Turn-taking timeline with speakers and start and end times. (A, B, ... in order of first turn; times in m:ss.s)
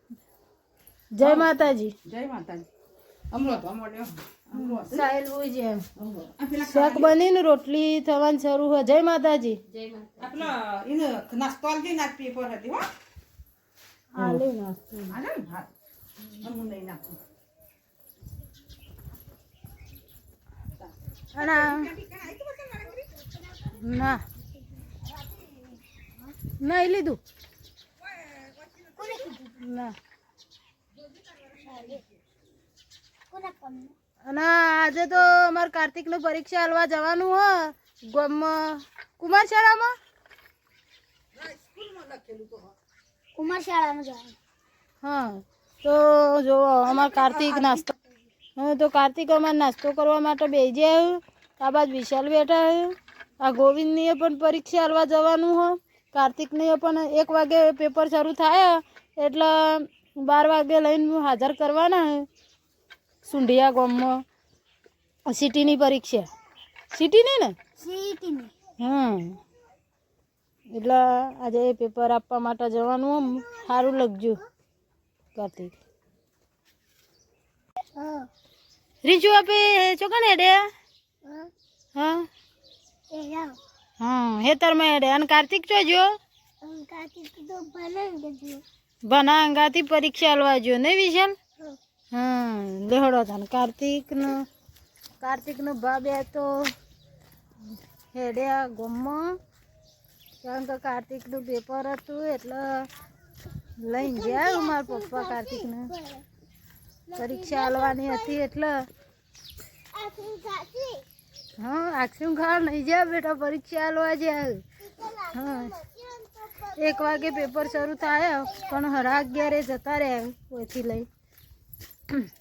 0:01.1-0:02.0 A
0:02.1-0:02.7 B
0:03.3-0:05.0 B
0:04.5-0:05.9 A
0:06.0-0:07.1 B
0:06.5-0:09.6 A
0:09.8-0:12.9 B
0:14.2-0:15.2 A
0:15.2-0:15.7 B
0:16.4-0:17.2 B
0:21.3-0:22.0 A
0:21.8-0:23.0 B
0:23.2-0:23.9 C
0:23.8-0:24.2 A
0:26.6-0:27.2 A
0:29.0-0:29.5 C
0:29.5-0:30.0 A
0:31.5-0:32.0 C
0:33.3-0:33.9 C
0:34.2-0:39.9 A
0:41.5-0:42.7 B
0:43.4-0:44.4 C
0:45.0-0:47.9 A
0:48.6-1:02.3 A
1:03.2-1:04.2 A
1:05.3-1:06.3 A
1:06.9-1:07.6 A
1:07.8-1:08.5 C
1:08.8-1:09.4 A
1:10.7-1:14.4 A
1:13.4-1:13.7 C
1:15.4-1:15.7 A
1:18.0-1:18.3 C
1:19.0-1:20.7 A
1:21.2-1:21.5 C
1:22.0-1:22.3 A
1:23.1-1:23.6 C
1:24.0-1:26.1 A
1:26.6-1:28.6 C
1:29.0-1:31.4 A
1:32.1-1:34.5 A
1:35.2-1:36.7 A
1:38.1-1:39.4 A
1:40.4-1:42.9 A
1:43.8-1:45.9 A
1:44.0-1:46.2 C
1:47.1-1:48.4 C
1:47.2-1:48.9 A
1:49.9-1:51.0 C
1:51.6-1:54.6 A
1:54.8-1:59.6 C
1:55.3-1:55.7 A
1:56.8-2:01.1 A